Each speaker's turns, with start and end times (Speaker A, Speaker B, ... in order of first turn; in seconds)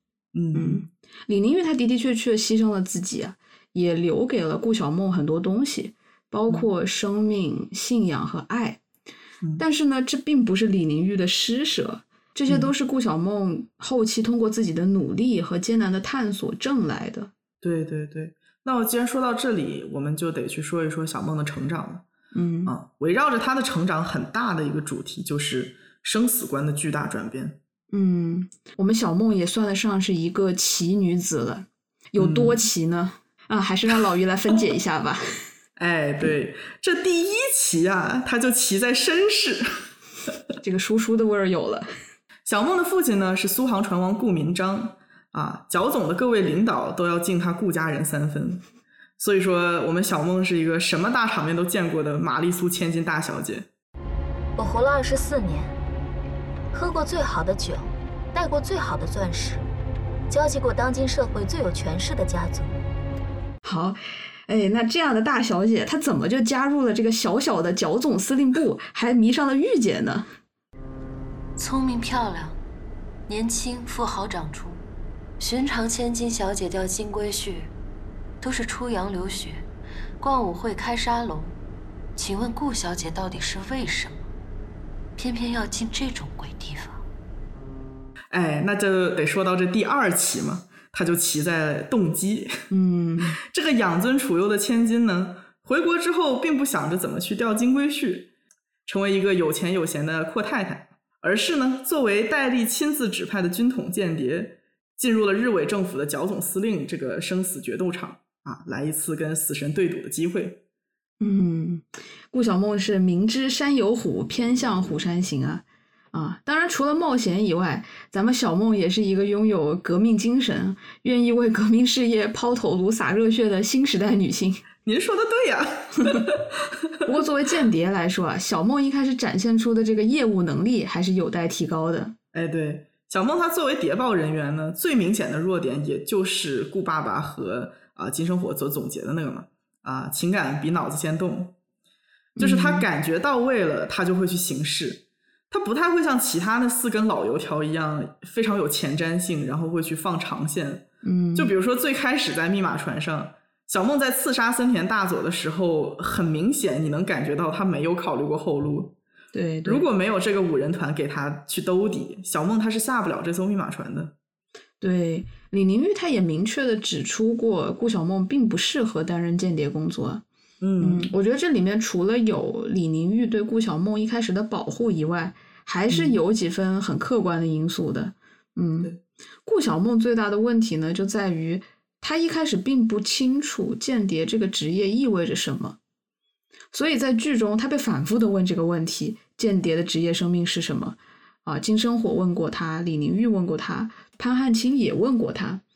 Speaker A: 0.3-0.8, 17.6-22.0, 22.6-27.6, 32.2-32.6, 35.8-39.9, 42.5-48.6, 49.2-53.7, 88.3-92.6, 93.4-98.3, 98.8-110.6, 124.8-127.1, 132.3-141.5, 142.4-159.0, 159.6-164.1, 170.6-171.1, 175.9-176.2
Speaker B: 0.5-8.8, 9.6-17.3, 22.3-22.7, 27.9-35.4, 40.6-41.9, 63.6-70.3, 92.7-93.4, 111.2-124.6, 127.0-132.1, 142.4-142.8, 151.0-151.5, 159.3-159.8, 164.8-170.2, 170.8-178.9, 179.4-185.8, 186.7-195.6
Speaker C: 54.6-55.7, 56.7-59.6, 60.3-62.8
Speaker D: 71.6-72.6, 73.3-74.8, 75.4-77.7, 78.4-79.7, 80.2-81.6, 82.2-84.3, 85.2-87.0